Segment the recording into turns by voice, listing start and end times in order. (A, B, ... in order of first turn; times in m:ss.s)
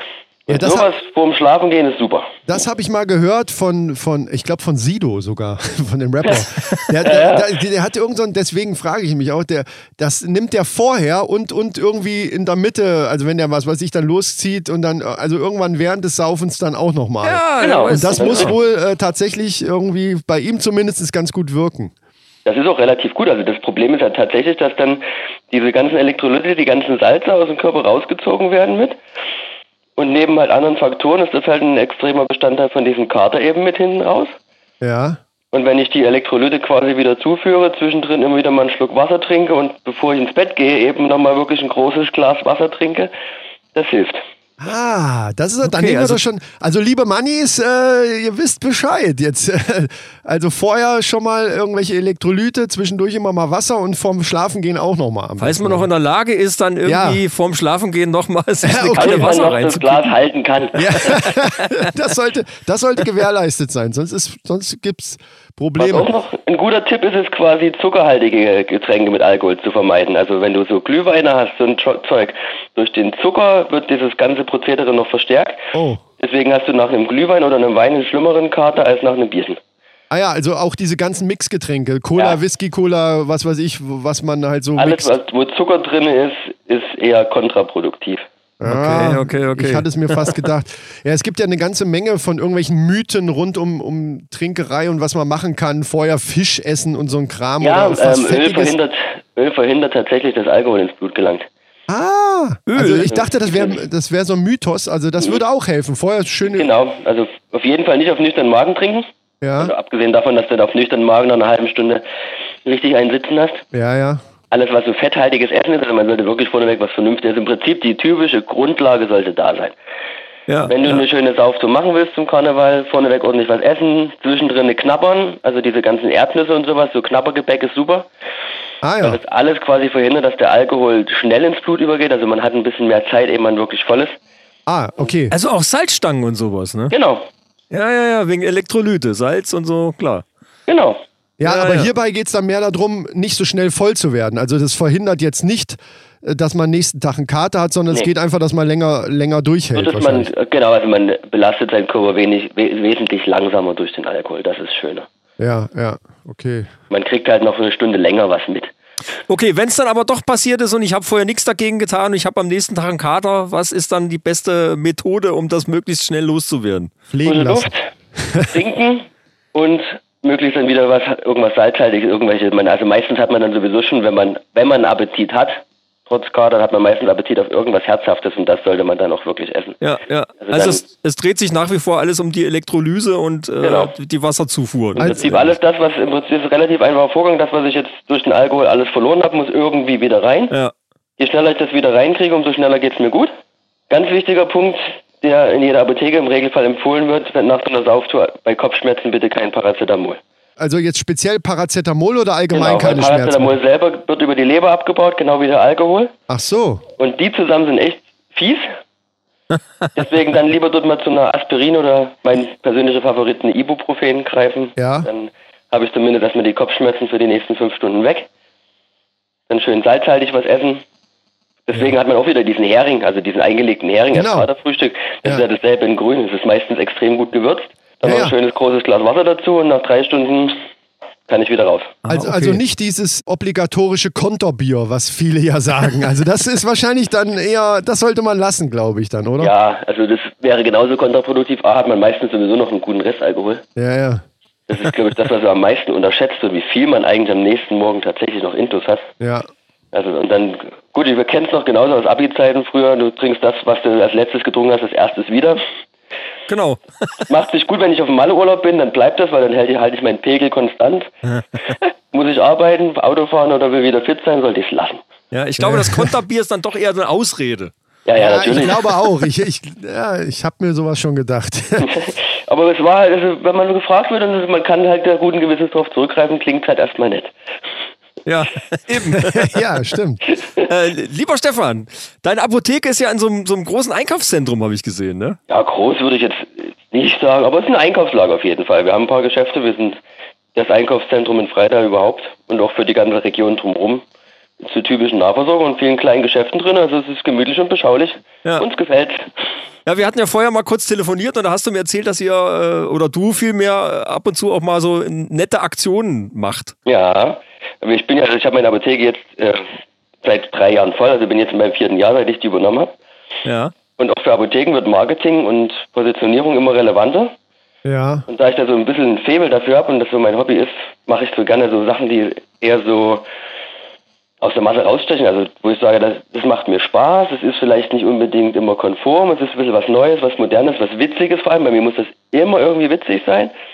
0:00.5-0:02.4 A
0:00.5-0:00.9 B
0:02.5-0:21.9 B
0:06.3-0:07.5 A
0:17.2-0:18.6 C
0:17.6-0:18.6 A
0:22.4-0:29.0 A
0:30.0-0:34.4 A
0:34.8-0:35.2 B
0:35.5-0:43.1 A
0:43.7-0:44.2 A
0:44.6-0:55.9 B
0:45.6-0:46.2 C
0:55.4-1:00.2 C
0:56.8-0:57.2 B
0:58.6-0:59.5 B
0:59.0-1:01.3 A
1:00.8-1:06.1 B
1:00.9-1:01.8 C
1:05.8-1:15.6 A
1:15.7-1:16.0 B
1:16.2-1:19.6 A
1:20.1-1:25.1 B
1:24.8-1:28.2 A
1:28.6-1:38.8 B
1:28.6-1:30.4 C
1:37.6-1:41.5 A
1:41.9-1:46.7 B
1:42.7-1:43.1 C
1:43.0-1:43.8 A
1:46.5-1:49.1 A
1:49.4-1:49.7 B
1:49.6-1:52.0 A
1:52.6-1:53.6 A
1:53.7-1:54.2 B
1:54.5-1:59.8 A
2:00.5-2:01.0 C
2:00.7-2:08.1 A
2:08.8-2:09.2 B
2:09.0-2:14.2 A
2:14.7-2:15.3 B
2:15.3-2:17.0 C
2:16.9-2:17.3 A
2:17.7-2:20.3 C
2:20.7-2:21.0 A
2:21.4-2:30.3 B
2:21.4-2:21.9 C
2:29.8-2:35.1 A
2:35.4-2:36.7 B
2:36.9-2:38.7 A
2:39.3-2:46.9 C
2:47.1-2:48.5 B
2:47.2-2:47.9 A
2:48.5-2:59.8 A
2:59.8-3:05.5 C
3:00.4-3:00.8 A
3:03.6-3:03.9 A
3:05.0-3:10.5 A
3:05.0-3:05.4 B
3:11.2-3:13.3 A
3:13.9-3:20.2 A
3:20.6-3:23.6 B
3:22.5-3:26.1 A
3:26.3-3:26.8 B
3:27.0-3:28.7 A
3:30.0-3:38.3 A
3:34.8-3:35.1 B
3:39.5-3:40.8 A
3:41.7-3:50.6 A
3:44.1-3:44.5 B
3:48.0-3:48.3 B
3:51.3-3:52.0 A
3:52.0-3:52.6 C
3:52.1-3:59.5 B
3:59.4-4:03.6 A
4:03.8-4:04.2 B
4:04.7-4:09.1 A
4:09.2-4:09.5 B
4:09.9-4:15.6 A
4:16.5-4:17.1 C
4:17.3-4:21.1 A
4:21.7-4:25.0 A
4:25.3-4:27.7 C
4:25.6-4:26.1 B
4:28.0-4:29.0 A
4:28.2-4:32.0 B
4:31.8-4:37.3 A
4:38.3-4:39.5 C
4:39.2-4:40.2 B
4:40.3-4:40.7 A
4:40.6-4:45.4 C
4:45.5-4:50.0 A
4:50.6-4:54.0 A
4:54.6-4:59.3 A
4:59.9-5:06.7 C
5:06.9-5:09.7 A
5:10.2-5:13.0 A
5:13.4-5:13.7 C
5:14.0-5:17.4 A
5:17.8-5:18.2 B
5:18.3-5:23.2 A
5:24.4-5:33.5 A